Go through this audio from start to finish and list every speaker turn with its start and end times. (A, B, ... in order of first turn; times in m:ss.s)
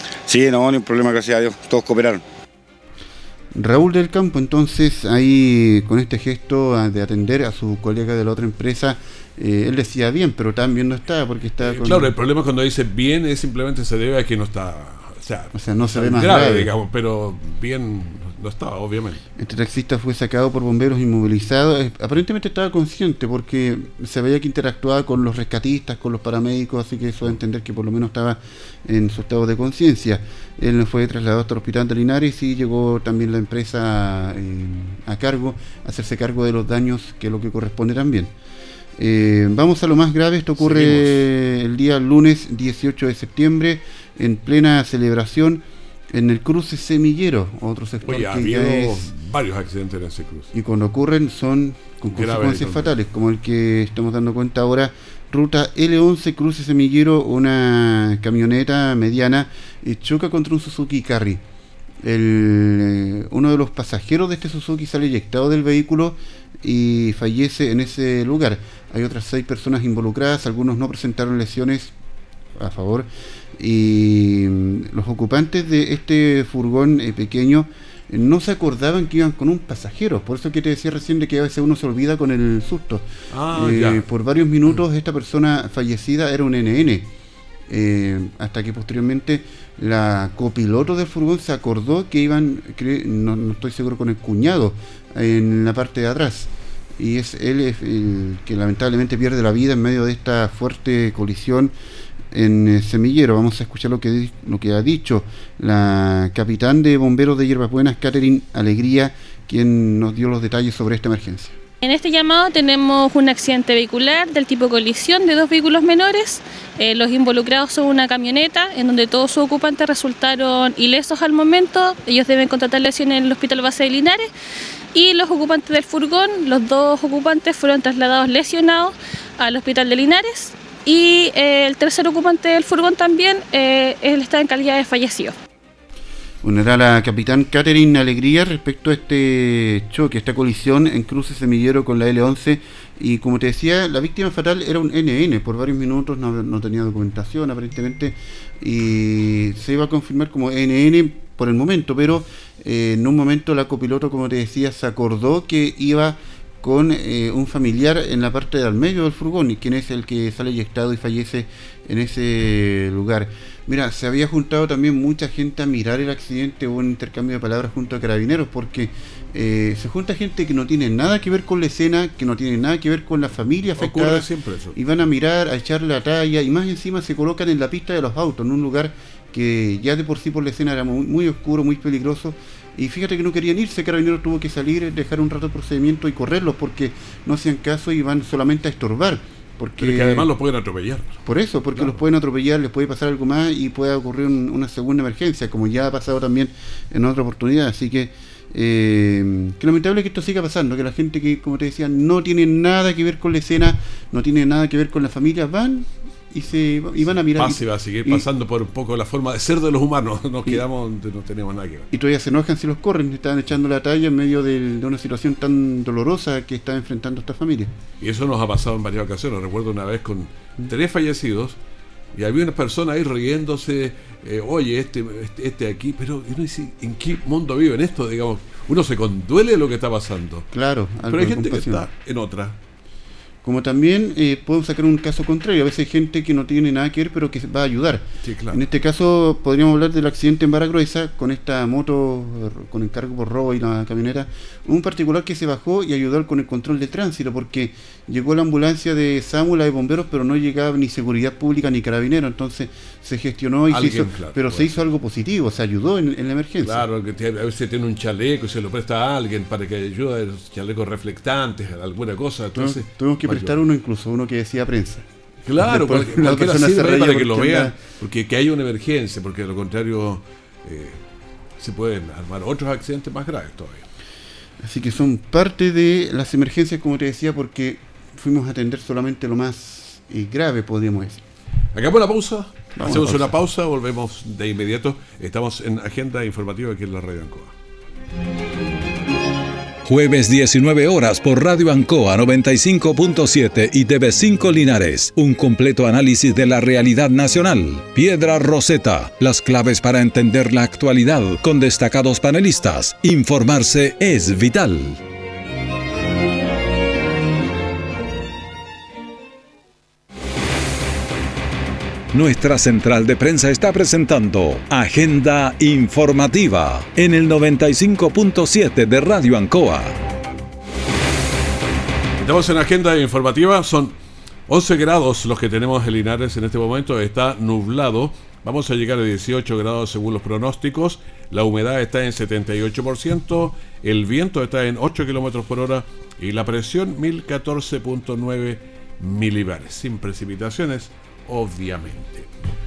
0:00.3-0:02.2 A
0:03.5-0:12.1 B
0:11.6-0:19.2 C
0:15.5-0:16.7 B
0:19.4-0:38.3 B
0:39.0-0:49.1 B
0:40.6-0:41.2 C
0:48.0-0:50.5 C
0:50.5-1:01.4 B
0:52.1-0:52.9 C
1:02.0-1:11.9 B
1:12.5-1:27.1 B
1:23.3-1:24.0 C
1:27.7-1:41.7 B
1:42.3-1:51.6 B
1:51.8-2:04.3 D
2:04.9-2:15.3 D
2:16.4-3:10.3 B
2:53.8-2:54.8 C
3:09.8-3:11.2 C
3:11.2-3:28.2 B
3:27.3-3:31.9 C
3:31.9-3:37.7 B
3:38.0-3:41.6 C
3:42.1-3:50.5 C
3:50.5-3:51.8 B
3:51.1-3:52.6 C
3:53.4-4:16.9 B
3:58.2-3:58.6 C
4:13.7-4:14.8 C
4:16.6-4:23.6 C
4:22.5-4:25.0 B
4:25.4-4:31.0 C
4:25.6-4:27.7 B
4:31.6-4:33.8 C
4:34.6-4:41.2 B
4:41.7-4:47.5 C
4:42.8-4:43.3 B
4:49.8-5:05.0 E
5:12.1-5:20.0 E
5:22.2-5:23.9 C
5:24.5-5:42.3 C